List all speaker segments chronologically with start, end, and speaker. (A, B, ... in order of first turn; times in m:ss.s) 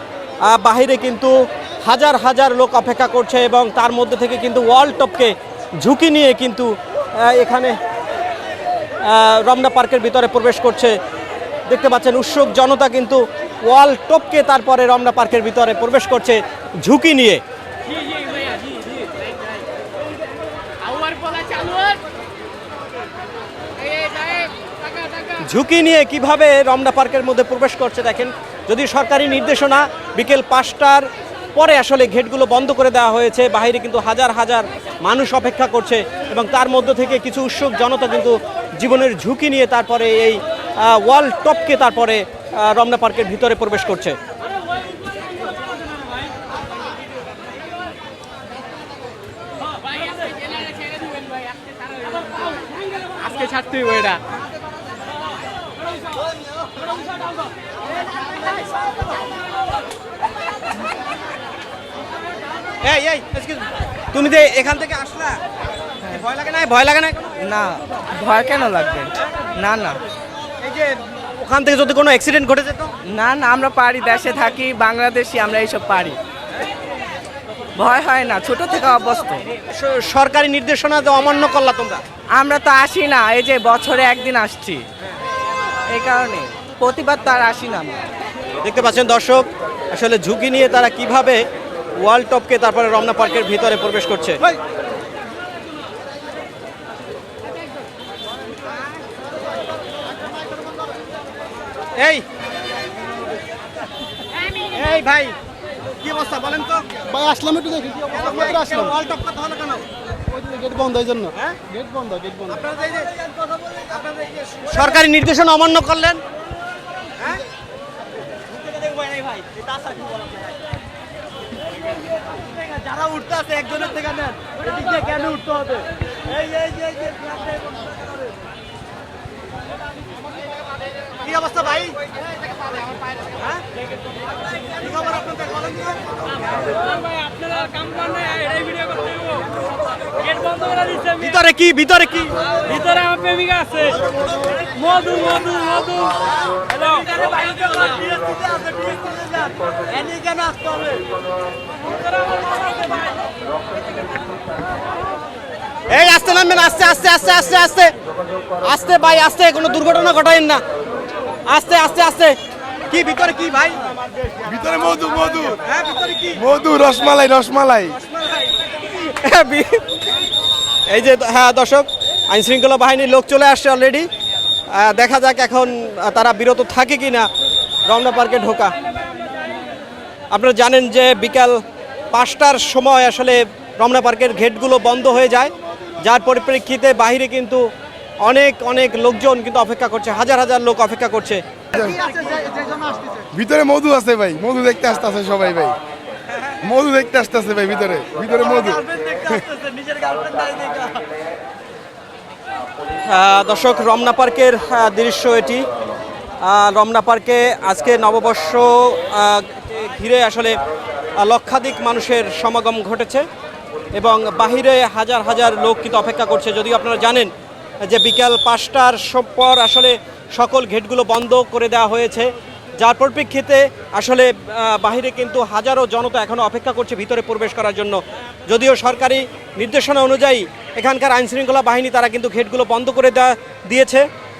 0:00.4-0:01.3 A
0:01.8-0:07.8 A
0:09.0-0:11.0 A
0:11.7-0:17.4 A
0:20.8-0:22.0 B
0:23.8-0:25.3 B
0:25.4-0:44.2 A
0:49.9-0:52.6 B
0:53.2-0:54.2 B
1:02.8-1:05.4 A
1:06.1-1:07.2 A
1:07.4-1:10.0 C
1:10.6-1:12.9 A
1:13.1-1:16.2 C
1:17.8-1:19.5 C
1:19.7-1:22.0 A
1:22.3-1:24.9 C
1:25.9-1:28.0 C
1:28.6-1:31.4 A
1:32.0-1:34.4 A
1:42.0-1:42.2 A
1:44.6-1:45.4 A
1:46.0-1:47.0 A
1:47.1-1:48.9 D
1:48.0-1:49.9 A
1:50.3-1:52.5 D
1:51.3-1:51.6 A
1:52.5-1:56.2 A
1:57.2-1:57.4 A
1:58.7-2:00.3 A
2:02.6-2:07.4 A
2:11.2-2:12.0 A
2:14.8-2:16.0 A
2:17.1-2:19.4 C
2:17.7-2:18.4 B
2:20.3-2:21.0 C
2:21.0-2:22.9 A
2:22.9-2:23.9 C
2:23.1-2:23.5 B
2:24.7-2:26.2 C
2:26.8-2:28.0 C
2:30.0-2:30.5 C
2:30.6-2:31.0 B
2:35.9-2:37.9 A
2:38.6-2:40.6 A
2:41.5-2:42.4 A
2:42.9-2:43.9 A
2:44.4-2:45.6 E
2:45.6-2:46.4 A
2:46.4-2:48.0 E
2:48.2-2:49.8 A
2:50.9-2:54.1 A
2:54.7-2:57.3 A
2:57.9-2:58.8 A
3:00.3-3:01.6 A
3:02.1-3:07.6 A
3:08.2-3:11.4 A
3:11.7-3:12.1 E
3:13.3-3:15.8 E
3:16.5-3:19.5 E
3:20.3-3:20.6 C
3:23.1-3:25.7 A
3:26.4-3:30.6 A
3:31.2-3:33.3 A
3:34.0-3:37.3 A
3:37.8-3:54.1 A